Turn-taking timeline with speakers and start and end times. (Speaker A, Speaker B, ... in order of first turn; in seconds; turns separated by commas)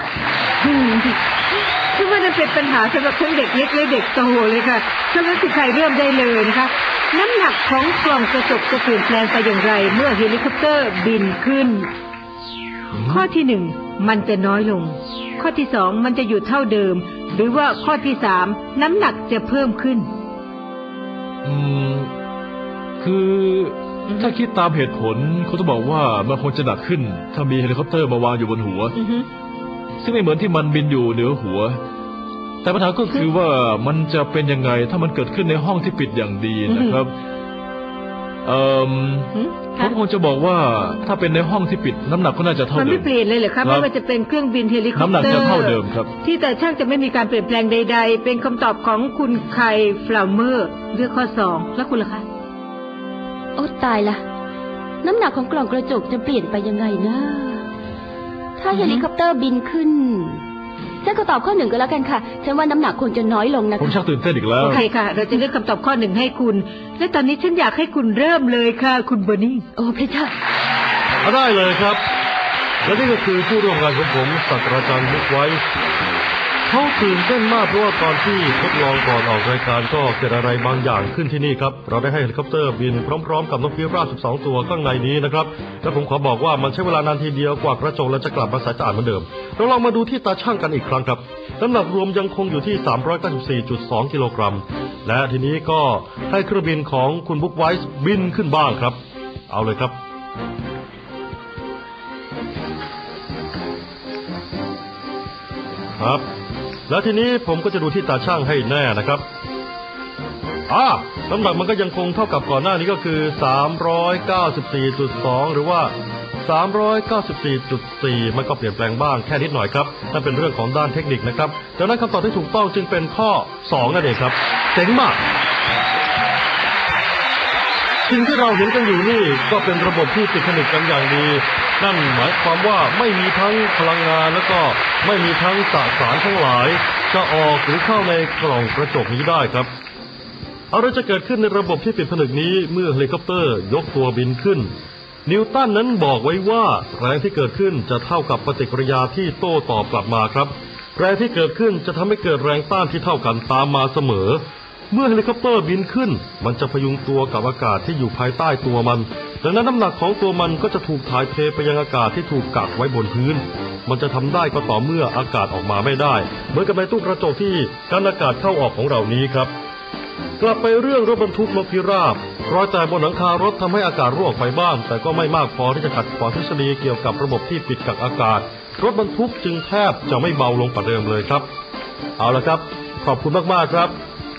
Speaker A: 0.6-1.2, Speaker A: 1.9-11.9, Speaker B: 12.9-13.2, Speaker A: 13.1-20.1, Speaker B: 21.4-22.1, Speaker B: 23.0-28.9, Speaker A: 29.0-29.3, Speaker B: 30.0-31.8, Speaker B: 32.6-37.1, Speaker A: 36.7-37.0, Speaker B: 38.4-43.1, Speaker A: 39.3-39.9, Speaker A: 42.7-52.2, Speaker B: 43.6-43.9, Speaker B: 44.9-46.1, Speaker C: 53.5-54.2, Speaker C: 55.0-57.6, Speaker C: 58.6-60.4, Speaker A: 58.7-59.0, Speaker C: 61.0-64.0, Speaker B: 63.8-64.8, Speaker A: 64.6-69.7, Speaker C: 69.8-70.3, Speaker D: 71.2-72.0, Speaker D: 72.8-75.6, Speaker D: 76.6-100.0, Speaker D: 106.0-106.2, Speaker D: 106.9-109.2, Speaker D: 110.7-115.9, Speaker D: 116.4-125.2, Speaker D: 128.1-139.7, Speaker D: 140.7-144.7, Speaker D: 145.2-169.5, Speaker D: 170.4-181.4, Speaker D: 182.2-183.9